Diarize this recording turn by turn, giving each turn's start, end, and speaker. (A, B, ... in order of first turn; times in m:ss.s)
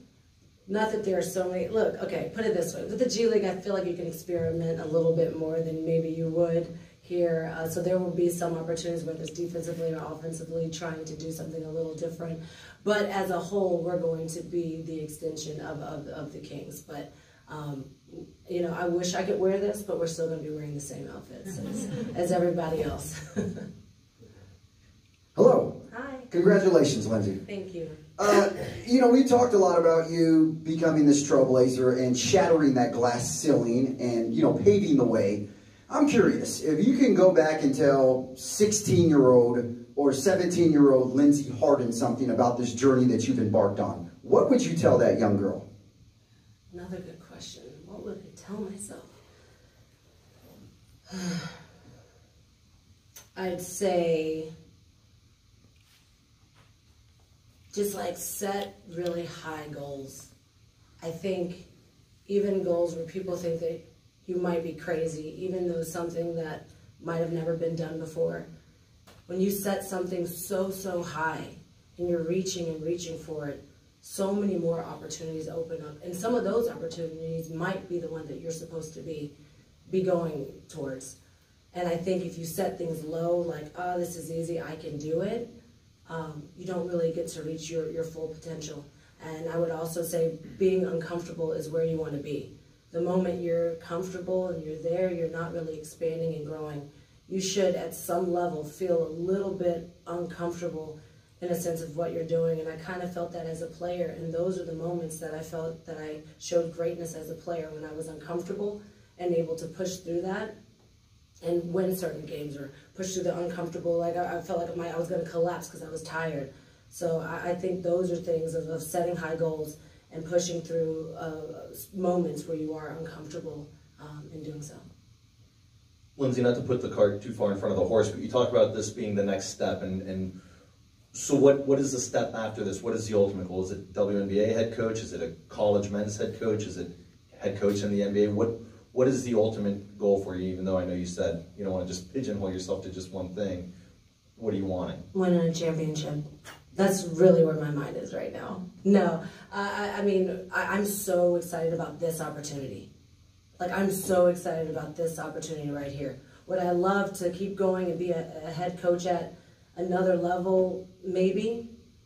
0:00.7-0:23.6 A
0:25.3-0:27.4 B
0:25.9-0:26.3 A
0:27.4-0:28.0 A
0:28.2-0:45.6 B
0:46.7-0:49.2 A
0:51.1-0:51.5 A
0:53.3-0:54.5 A
0:57.7-1:00.3 A
1:01.0-1:01.7 A
1:02.3-1:08.5 A
1:09.3-1:19.3 A
1:19.9-1:21.2 A
1:21.7-1:25.5 A
1:26.1-1:50.5 A
1:51.4-2:04.8 A
2:06.2-2:10.3 C
2:11.1-2:23.6 C
2:24.4-2:25.0 C
2:25.1-2:32.9 A
2:33.6-2:41.7 A